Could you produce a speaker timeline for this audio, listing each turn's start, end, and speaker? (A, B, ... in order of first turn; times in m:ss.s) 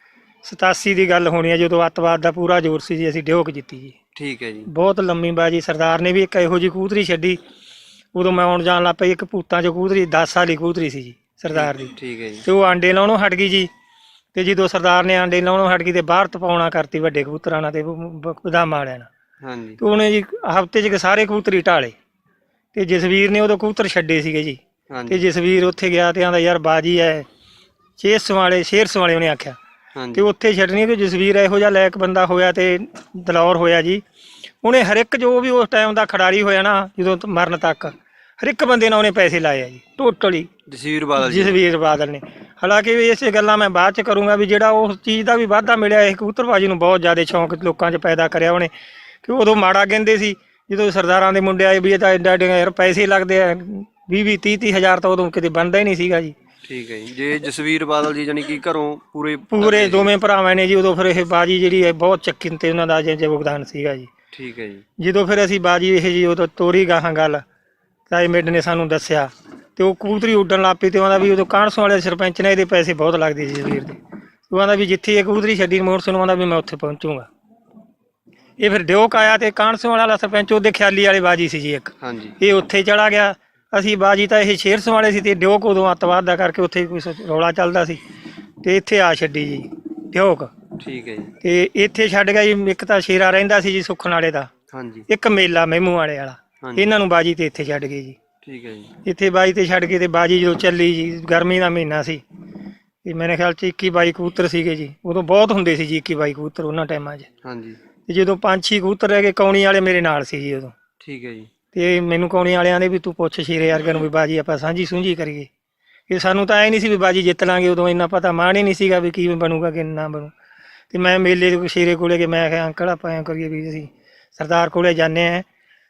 0:00.4-0:04.0 A
0:04.2-0:04.7 B
0:04.7-0:07.4 A
0:08.1-0:13.7 A
0:11.5-0:12.4 B
0:14.4-0:19.1 A
0:19.4-0:19.8 B
0:19.8-0:21.9 A
0:22.7-0:27.2 A
0:24.9-0:25.2 B
0:28.0-0:29.6 A
0:30.0-0:30.3 B
0:30.2-0:34.0 A
0:34.6-0:40.5 A
0:40.7-0:41.6 B
0:41.2-0:48.7 A
0:49.2-0:56.3 A
0:56.6-1:00.1 B
0:59.5-1:04.1 A
1:04.3-1:04.8 B
1:05.0-1:07.4 A
1:08.1-1:14.0 A
1:14.5-1:17.3 A
1:18.6-1:28.0 A
1:22.0-1:22.4 B
1:28.6-1:30.5 A
1:30.8-1:31.3 B
1:31.4-1:34.5 A
1:34.7-1:35.1 B
1:35.1-1:38.2 A
1:36.6-1:36.9 B
1:38.4-1:38.9 B
1:39.0-1:42.2 A
1:43.0-1:47.3 A
1:47.4-1:47.8 B
1:48.1-1:50.7 A
1:51.0-1:51.5 B
1:51.7-1:55.5 A
1:56.1-2:00.3 A
2:00.9-2:05.5 A